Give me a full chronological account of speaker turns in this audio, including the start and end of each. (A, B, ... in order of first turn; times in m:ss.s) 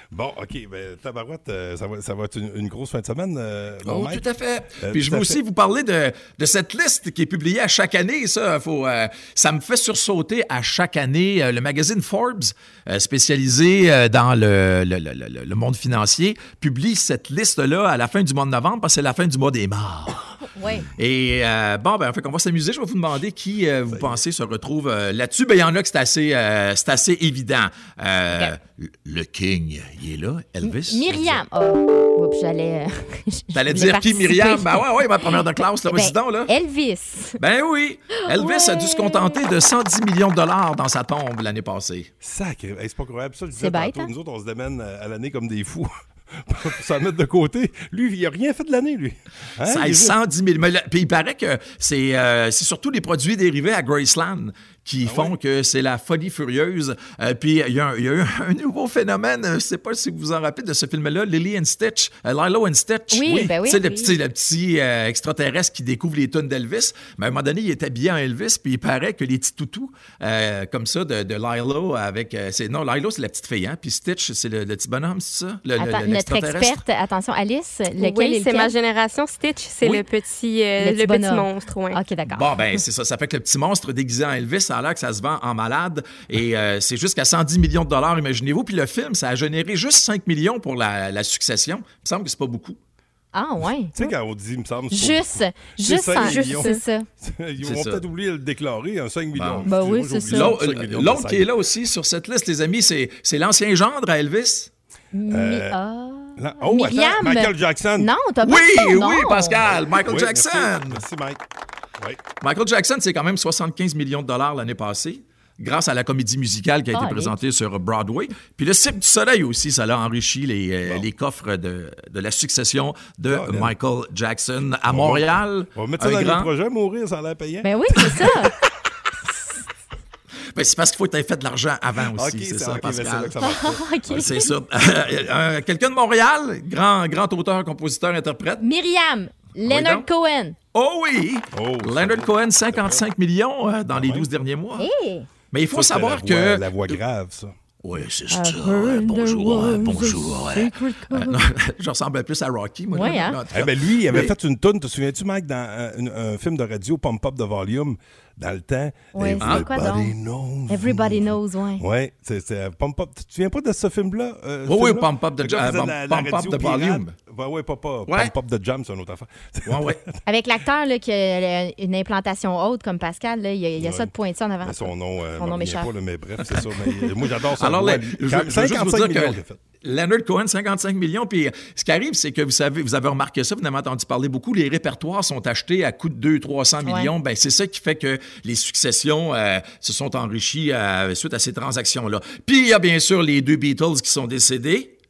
0:00.1-0:04.2 A
0:03.8-0:20.4 B
0:04.8-0:05.4 A
0:20.6-0:20.9 C
0:21.0-0:31.4 B
0:23.9-0:24.2 A
0:30.6-0:35.3 C
0:33.5-0:36.5 B
0:35.9-0:37.4 C
0:37.4-0:42.1 B
0:38.2-0:39.4 C
0:42.2-0:50.2 A
0:43.6-0:44.1 C
0:49.6-1:16.8 B
0:55.0-0:55.4 A
1:03.1-1:04.1 C
1:15.8-1:18.7 C
1:18.0-1:22.0 D
1:20.8-1:22.8 C
1:22.3-1:32.8 B
1:33.3-1:34.1 C
1:33.9-1:41.5 A
1:34.9-1:37.1 C
1:36.2-1:36.8 D
1:37.6-1:38.0 B
1:39.4-1:39.7 B
1:39.7-1:40.6 C
1:40.3-1:44.7 B
1:45.1-1:49.6 C
1:45.3-1:45.8 A
1:46.4-1:48.1 A
1:48.4-1:51.0 B
1:49.7-1:51.4 A
1:52.4-2:06.5 B
1:56.9-1:57.4 C
2:03.3-2:03.7 A
2:04.9-2:08.4 A
2:07.6-2:08.6 C
2:10.5-2:13.4 B
2:12.1-2:14.3 A
2:13.4-2:14.5 C
2:14.1-2:18.6 B
2:18.6-2:20.6 C
2:19.6-2:20.1 B
2:20.7-2:24.9 B
2:21.5-2:23.0 A
2:23.9-2:24.3 A
2:24.8-2:25.3 C
2:25.5-2:27.0 B
2:25.7-2:27.5 A
2:27.8-2:34.3 B
2:28.3-2:31.4 C
2:32.9-2:33.4 C
2:33.5-2:50.0 A
2:39.1-2:40.1 C
2:39.4-2:39.7 B
2:40.7-2:41.8 C
2:44.7-2:47.1 B
2:48.1-2:48.3 B
2:49.7-2:50.0 B
2:50.3-2:55.9 C
2:53.8-2:54.1 A
2:54.6-2:59.6 A
2:57.6-3:14.9 B
3:06.8-3:07.1 C